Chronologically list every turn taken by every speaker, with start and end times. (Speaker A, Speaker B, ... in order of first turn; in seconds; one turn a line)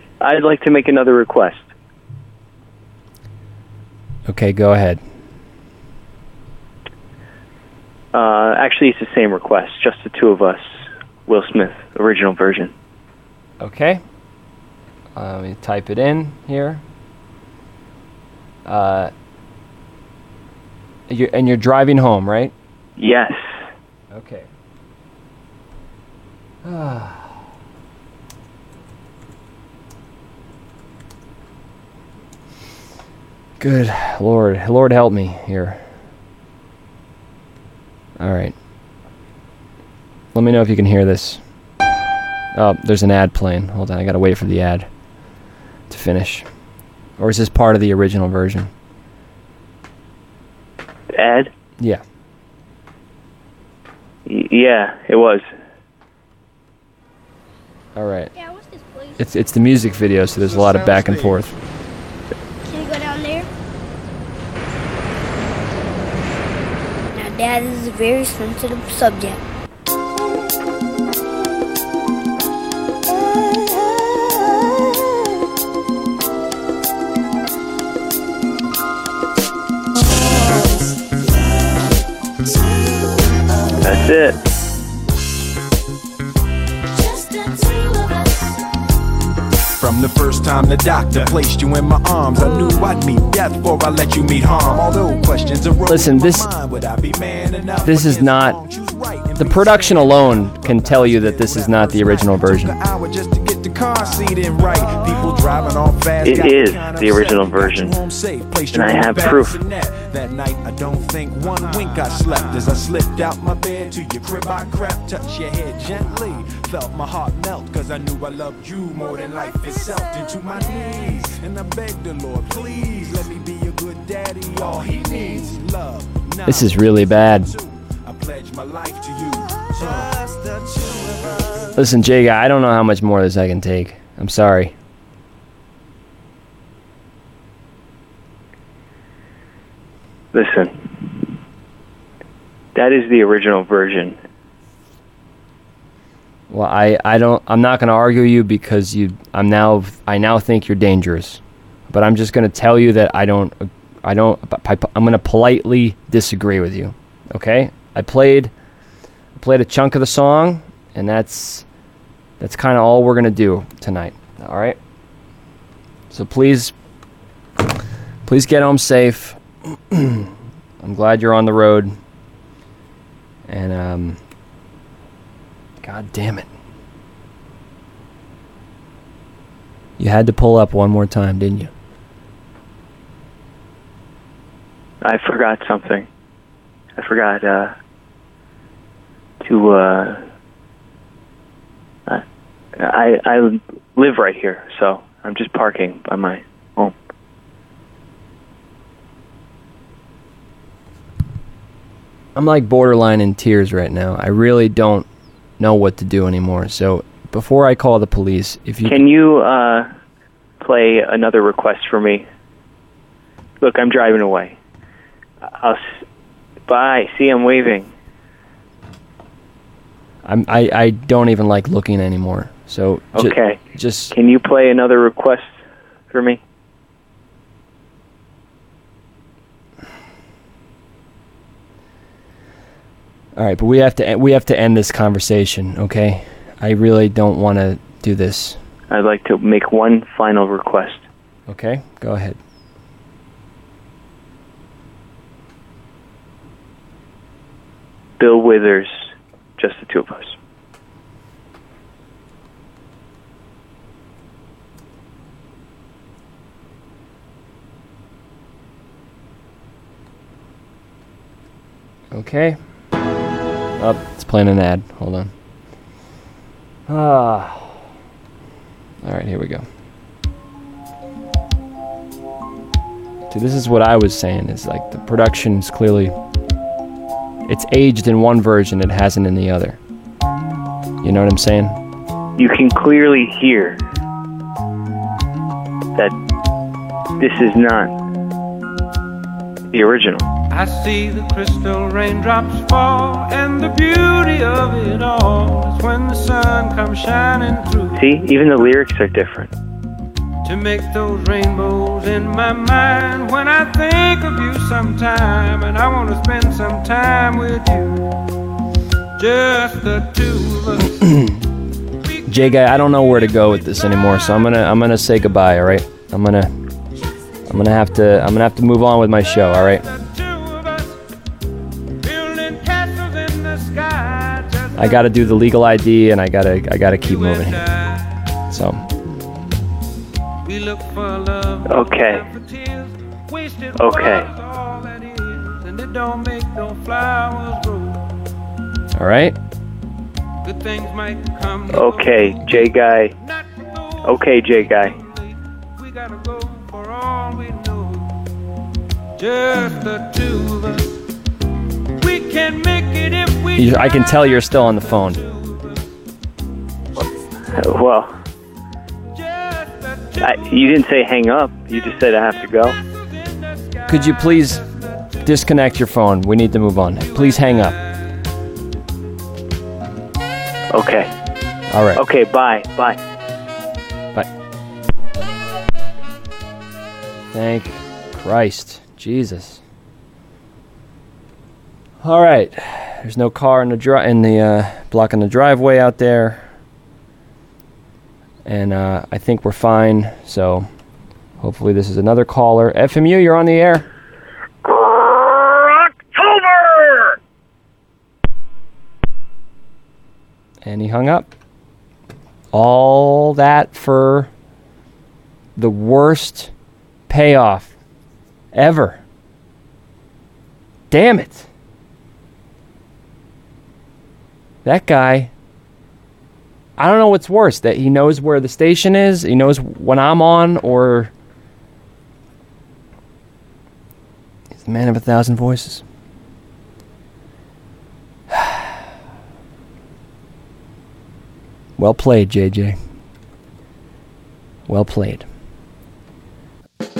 Speaker A: 0.2-1.7
Speaker B: 4.3-5.0
Speaker A: 8.1-12.7
Speaker B: 13.6-14.0
Speaker B: 15.2-16.8
Speaker B: 18.7-19.1
Speaker B: 21.1-22.5
Speaker A: 23.0-23.6
Speaker B: 24.1-24.5
Speaker B: 26.6-27.4
Speaker B: 33.6-35.8
Speaker B: 38.2-38.5
Speaker B: 40.3-41.4
Speaker B: 42.5-44.9
Speaker B: 45.9-46.5
Speaker B: 47.2-48.7
Speaker A: 51.1-51.5
Speaker A: 54.3-55.5
Speaker B: 58.0-58.3
Speaker C: 58.4-59.2
Speaker B: 59.2-61.5
Speaker D: 60.4-61.4
Speaker C: 62.7-63.5
Speaker C: 67.1-69.4
Speaker A: 83.8-84.4
Speaker D: 89.8-131.7
Speaker B: 95.9-96.5
Speaker B: 97.8-98.6
Speaker B: 99.4-102.8
Speaker A: 106.2-108.0
Speaker A: 108.7-109.6
Speaker B: 126.5-127.5
Speaker B: 131.8-134.8
Speaker A: 140.3-141.3
Speaker A: 142.8-144.2
Speaker B: 146.5-158.5
Speaker B: 159.3-161.7
Speaker B: 162.4-164.8
Speaker B: 166.1-166.7
Speaker B: 168.3-171.9
Speaker B: 173.5-174.2
Speaker B: 175.8-176.5
Speaker B: 180.0-181.7
Speaker A: 185.0-186.1
Speaker A: 187.0-187.7
Speaker A: 189.4-190.2
Speaker A: 192.8-196.9
Speaker B: 202.3-205.1
Speaker B: 205.6-209.0
Speaker A: 208.9-209.9
Speaker A: 210.6-212.3
Speaker A: 213.6-214.6
Speaker A: 215.5-215.9
Speaker A: 216.7-217.9
Speaker B: 220.2-224.1
Speaker A: 223.2-223.6
Speaker A: 224.1-225.6
Speaker A: 226.1-226.4
Speaker B: 233.4-238.6
Speaker A: 238.9-241.1
Speaker B: 241.5-242.4
Speaker A: 248.2-250.4
Speaker B: 262.1-262.6
Speaker B: 263.8-265.3
Speaker B: 266.9-267.8
Speaker B: 269.0-269.6
Speaker B: 273.3-276.1
Speaker B: 277.5-279.8
Speaker B: 281.0-281.8
Speaker A: 282.4-283.8
Speaker A: 287.2-287.9
Speaker A: 289.7-290.3
Speaker E: 290.5-298.0
Speaker A: 298.0-299.5
Speaker E: 300.4-308.1
Speaker E: 309.2-311.0
Speaker B: 310.9-311.4
Speaker B: 312.3-316.5
Speaker B: 317.5-319.9
Speaker E: 319.6-321.0
Speaker E: 322.0-325.1
Speaker B: 324.8-327.7
Speaker E: 327.0-328.2
Speaker B: 328.5-328.8
Speaker E: 330.4-338.2
Speaker A: 331.7-332.2
Speaker A: 333.8-334.3
Speaker B: 339.0-339.4
Speaker E: 340.4-348.2
Speaker A: 341.7-343.1
Speaker A: 344.0-345.0
Speaker E: 349.2-351.0
Speaker E: 351.9-354.1
Speaker B: 353.6-355.2
Speaker E: 354.8-355.9
Speaker A: 357.0-358.1
Speaker E: 359.1-360.7
Speaker A: 360.2-362.8
Speaker E: 362.9-364.6
Speaker B: 363.9-364.6
Speaker B: 365.2-367.8
Speaker E: 367.1-367.7
Speaker A: 370.7-371.1
Speaker B: 371.7-372.0
Speaker A: 371.9-373.0
Speaker B: 377.3-379.6
Speaker B: 382.0-386.4
Speaker B: 388.4-390.7
Speaker B: 391.4-393.9
Speaker B: 400.6-401.3
Speaker B: 402.5-404.3
Speaker B: 405.6-406.5
Speaker B: 407.1-407.7
Speaker B: 408.5-409.0
Speaker B: 410.9-411.5
Speaker B: 414.6-415.3
Speaker B: 416.8-421.1
Speaker B: 424.5-425.8
Speaker B: 428.3-428.7
Speaker B: 431.8-432.8
Speaker B: 434.7-435.3